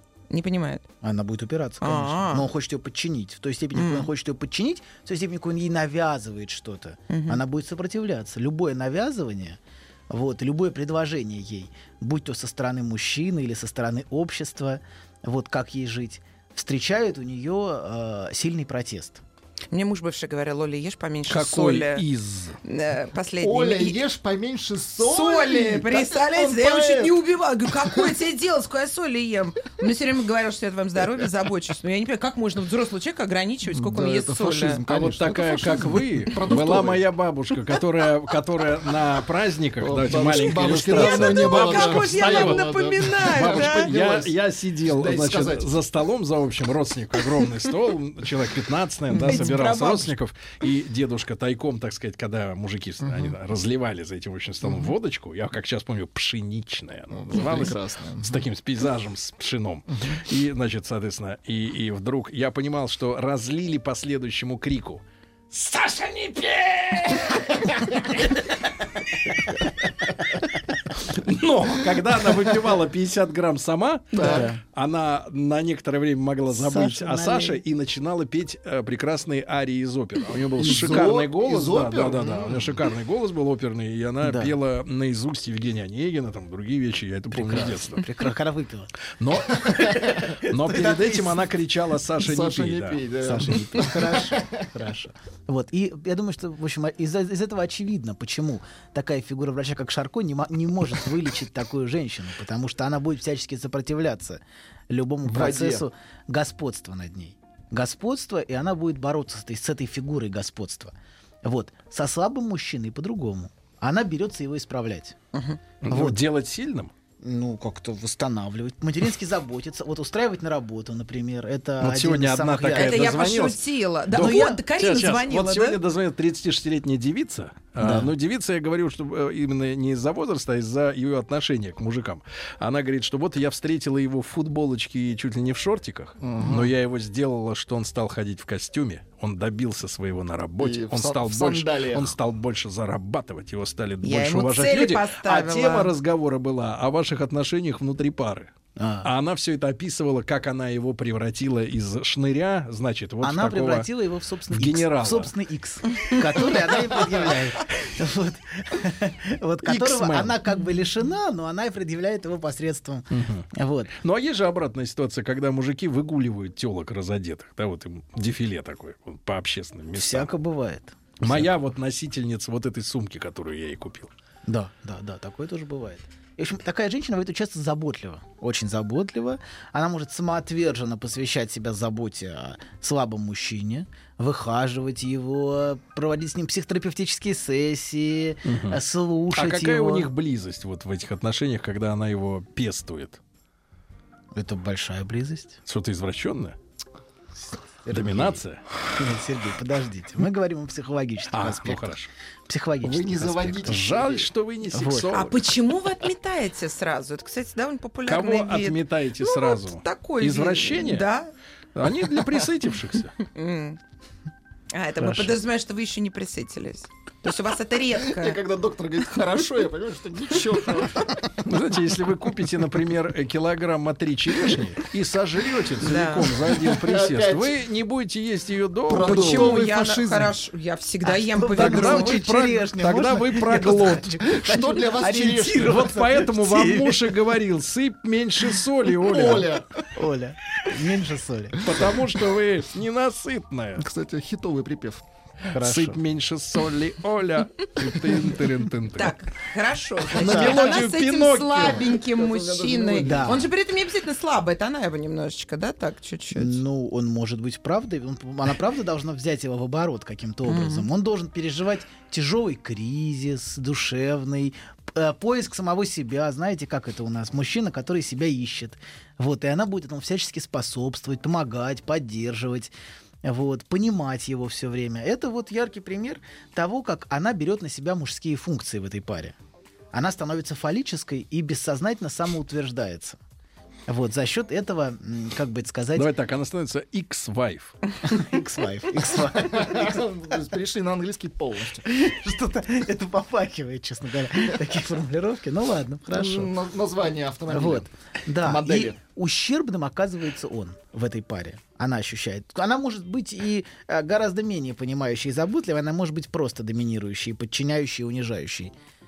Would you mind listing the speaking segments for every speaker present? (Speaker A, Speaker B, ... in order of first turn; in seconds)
Speaker A: 0.3-0.8, 1.8-2.5, 3.8-4.1, 7.1-7.4, 19.7-22.1, 22.6-24.0, 25.0-34.8, 40.8-43.9, 49.1-50.1, 115.3-115.6, 122.8-125.8, 144.0-145.9, 205.1-211.3, 213.3-213.8, 214.7-218.4, 225.8-226.4, 229.0-232.2, 248.9-256.6, 260.5-260.9
Speaker B: 1.0-19.2, 74.2-74.6, 76.5-77.6, 80.6-81.2, 84.2-84.6, 87.3-91.5, 93.2-115.2, 115.9-116.2, 117.2-123.2, 124.1-124.7, 127.8-128.1, 148.8-149.1, 153.2-163.9, 169.9-171.5, 174.5-190.1, 194.3-195.6, 197.8-198.4, 198.9-201.9, 202.5-203.9, 204.7-205.3, 231.0-237.2, 239.9-241.7, 245.5-246.0, 250.2-250.7, 253.0-253.5, 256.3-272.7, 273.2-279.4, 279.9-283.2, 283.9-286.1, 288.0-290.0, 291.9-296.5, 297.5-308.7
Speaker C: 21.3-22.6, 34.9-68.3, 71.0-88.1, 89.2-93.0, 115.8-116.9, 121.8-148.5, 149.0-153.9, 154.5-155.3, 159.7-160.3, 163.1-163.5, 164.0-170.3, 171.2-174.1, 188.5-188.8, 189.3-193.2, 195.7-196.6, 197.9-198.6, 201.3-202.1, 203.5-205.5, 208.1-211.1, 211.8-213.2, 215.0-215.3, 221.4-230.1, 231.6-234.2, 235.6-239.6, 241.6-243.9, 245.6-249.2, 250.1-251.9, 286.0-287.8
Speaker D: 23.4-27.2, 33.7-37.0, 39.8-45.8, 53.0-53.3, 57.1-58.5, 74.2-74.5, 80.6-82.8, 92.2-94.7, 105.3-105.8, 136.2-136.7, 140.6-142.2, 202.8-204.3, 218.1-221.4, 226.5-227.6, 228.9-230.3, 234.2-235.9, 239.0-239.8, 243.8-245.0, 251.6-253.5, 289.3-291.9, 296.1-297.9, 298.4-299.0